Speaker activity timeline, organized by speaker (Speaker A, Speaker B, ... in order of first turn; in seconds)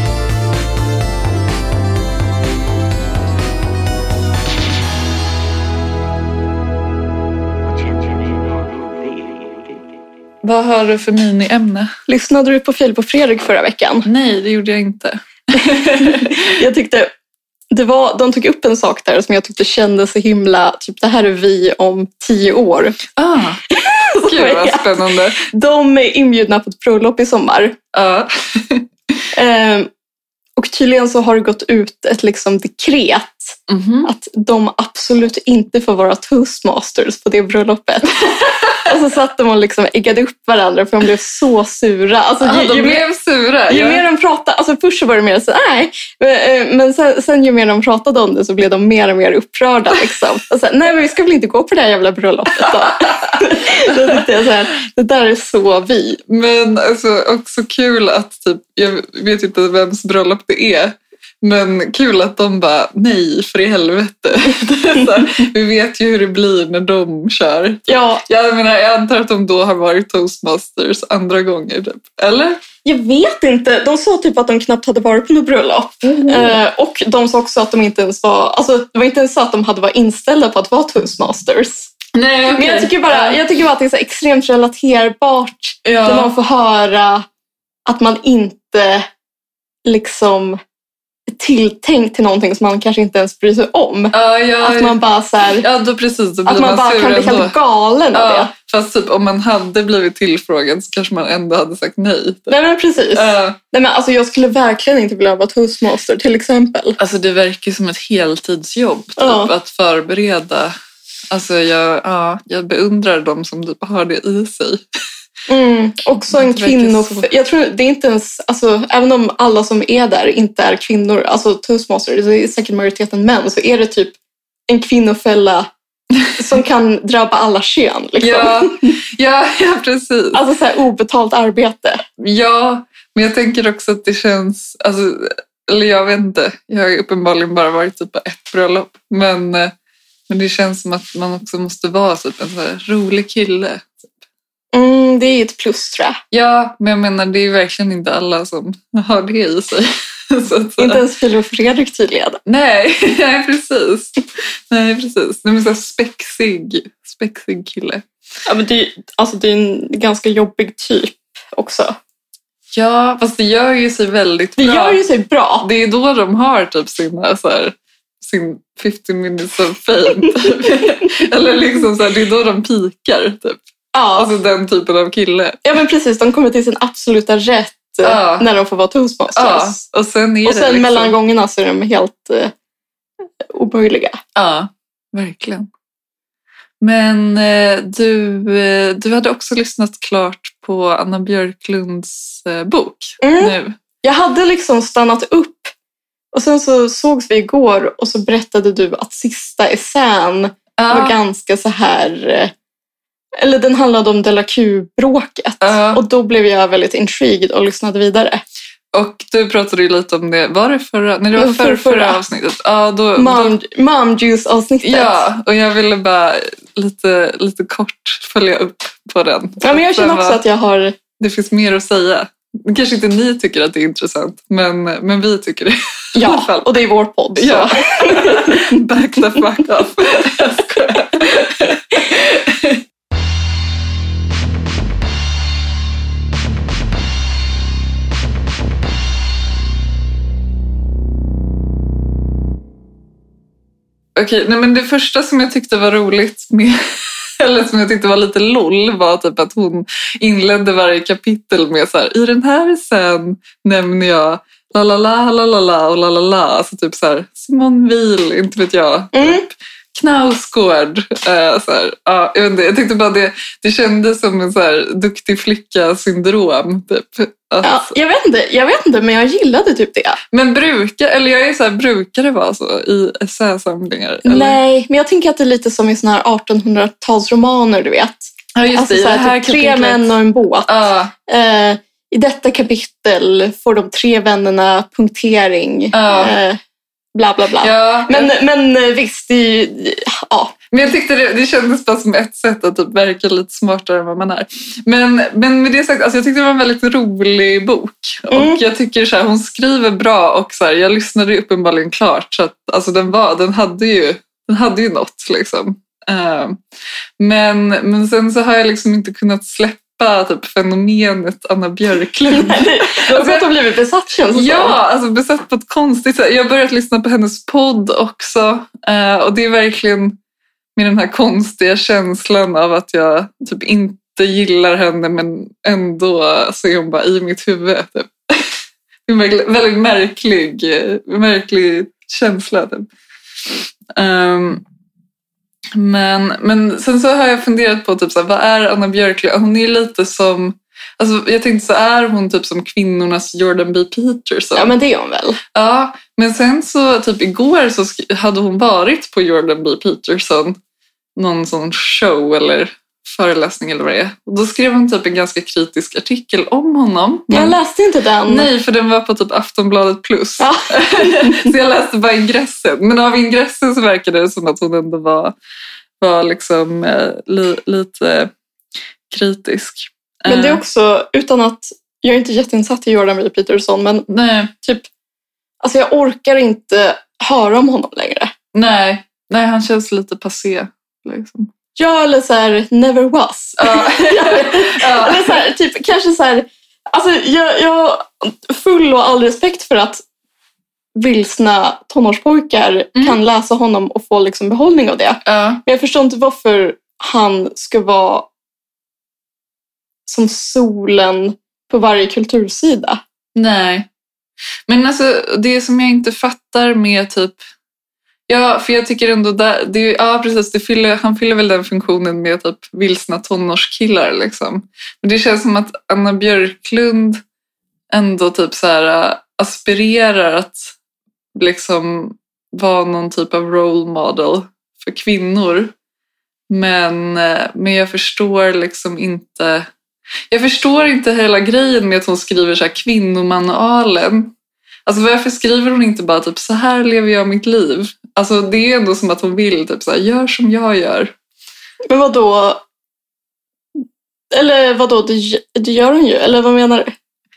Speaker A: 7.6-10.0
Speaker B: 10.4-11.9, 14.1-16.5, 23.2-23.6, 24.2-25.4, 27.9-28.9, 33.7-34.1, 42.4-44.0, 52.7-53.1, 56.3-72.6, 76.0-76.6, 82.2-83.4, 85.8-86.3, 94.1-95.0, 95.6-97.5, 98.1-102.6, 103.1-103.6, 107.0-110.7, 111.3-114.8, 116.3-117.3, 128.2-130.4, 132.2-139.7, 140.3-144.1, 146.3-151.0, 152.5-158.0, 162.7-165.0, 165.6-173.6, 174.2-175.6, 178.0-178.5, 179.3-181.2, 184.4-185.7, 186.8-193.8, 200.8-201.2, 205.6-206.0, 208.9-213.5, 214.8-220.4, 221.2-226.7, 227.4-232.8, 244.2-246.8, 247.4-267.9, 270.3-274.6, 278.6-280.1, 280.7-281.1, 285.9-286.4, 287.6-288.3, 290.7-306.6, 307.2-313.5, 314.3-320.2, 320.8-328.5, 329.1-332.9, 333.9-334.6, 335.8-344.7, 345.5-350.6, 351.2-357.6, 358.3-365.4, 366.0-368.3, 369.1-370.6, 374.1-374.5, 378.5-381.5, 383.6-385.4, 395.2-395.6, 403.4-403.9, 404.7-407.4, 408.3-417.2, 417.9-420.7, 421.4-425.7, 426.5-429.7, 430.3-434.3, 434.9-441.1
Speaker C: 12.1-14.1, 15.7-17.1, 17.7-23.0, 23.7-27.8, 29.3-29.9, 30.6-43.0, 43.7-56.2, 67.9-68.2, 72.8-81.9, 82.5-87.3, 87.9-89.1, 89.9-90.6, 91.3-95.7, 96.5-98.5, 102.5-107.0, 109.2-109.5, 115.5-124.2, 124.7-125.7, 126.3-128.9, 130.3-132.0, 144.7-146.2, 150.8-152.4, 158.5-161.9, 164.6-165.7, 173.9-174.3, 175.7-179.8, 180.4-182.5, 183.5-184.2, 193.2-195.7, 196.3-202.5, 203.4-208.4, 211.3-212.2, 213.2-215.2, 219.6-221.0, 226.1-228.8, 259.1-259.4, 267.6-270.2, 274.2-280.7, 281.3-286.6, 287.1-290.6, 298.3-298.6, 312.3-314.8, 344.6-345.4, 357.3-358.5, 360.4-361.5, 370.3-374.1, 374.6-374.9, 375.6-378.3, 381.8-390.0, 391.0-398.3, 400.1-403.0, 441.9-442.6, 444.3-446.9